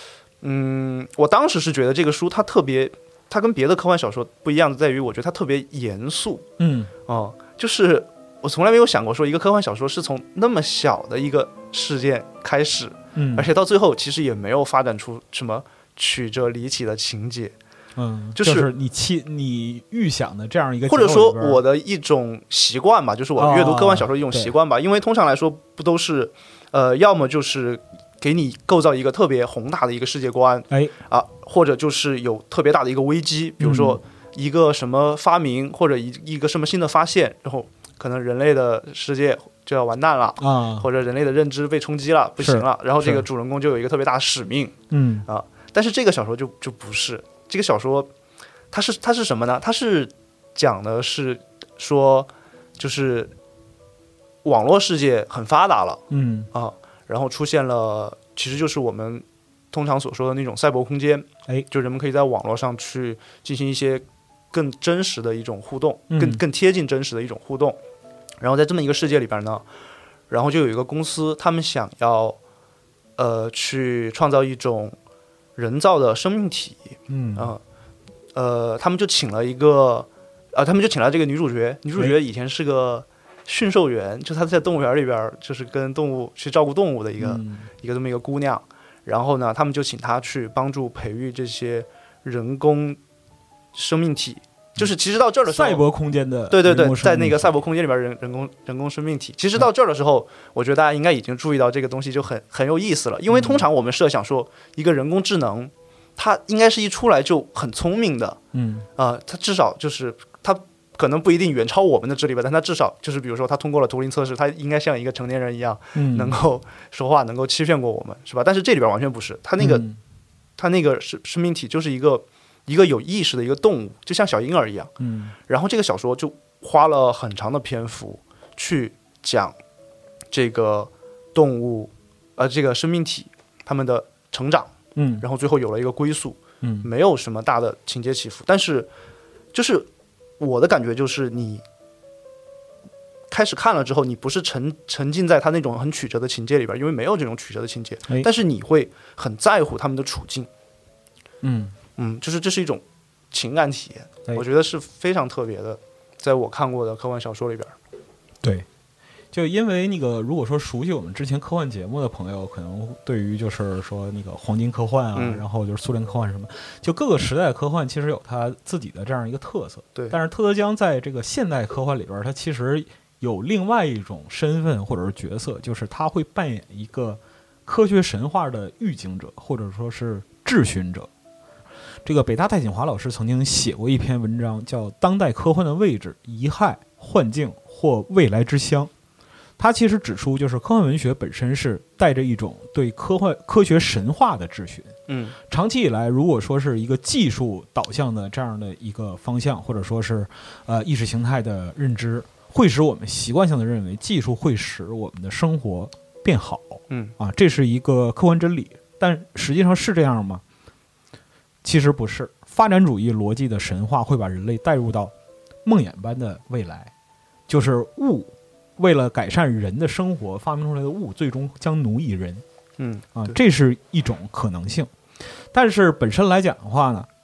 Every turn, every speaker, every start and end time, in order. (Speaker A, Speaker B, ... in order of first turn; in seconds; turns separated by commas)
Speaker A: 0.4-6.5, Speaker B: 6.6-6.9, Speaker A: 7.1-17.5, Speaker B: 13.2-13.5, Speaker B: 18.0-21.6, Speaker A: 18.4-18.7, Speaker A: 20.9-44.8, Speaker B: 23.4-24.5, Speaker B: 33.6-34.0, Speaker B: 40.4-40.9, Speaker B: 42.4-43.2, Speaker B: 44.9-45.3, Speaker A: 45.3-48.1, Speaker A: 48.7-53.3, Speaker A: 54.4-56.0, Speaker B: 56.1-56.5, Speaker A: 56.5-67.8, Speaker B: 66.1-66.4, Speaker A: 68.4-69.6, Speaker A: 70.3-72.4, Speaker A: 73.2-75.0, Speaker A: 75.6-77.6, Speaker B: 77.1-77.5, Speaker A: 78.3-93.0, Speaker B: 87.2-87.7, Speaker A: 93.7-95.8, Speaker B: 95.5-97.6, Speaker A: 96.5-108.4, Speaker B: 103.3-103.7, Speaker B: 108.5-108.9, Speaker A: 109.0-119.9, Speaker B: 116.0-116.4, Speaker B: 119.6-120.0, Speaker A: 120.6-124.9, Speaker B: 125.0-125.3, Speaker A: 125.5-129.6, Speaker A: 130.3-138.9, Speaker B: 135.0-135.2, Speaker B: 136.6-136.9, Speaker A: 139.5-139.9, Speaker A: 140.4-141.6, Speaker A: 143.3-150.5, Speaker B: 151.4-151.8, Speaker A: 152.0-157.8, Speaker B: 159.3-181.1, Speaker A: 165.2-165.4, Speaker B: 182.1-188.9, Speaker B: 189.6-210.4, Speaker A: 195.1-195.4, Speaker B: 211.6-215.1, Speaker B: 215.7-216.9, Speaker B: 217.5-222.4, Speaker A: 222.8-223.4, Speaker B: 223.2-224.9, Speaker B: 225.5-227.1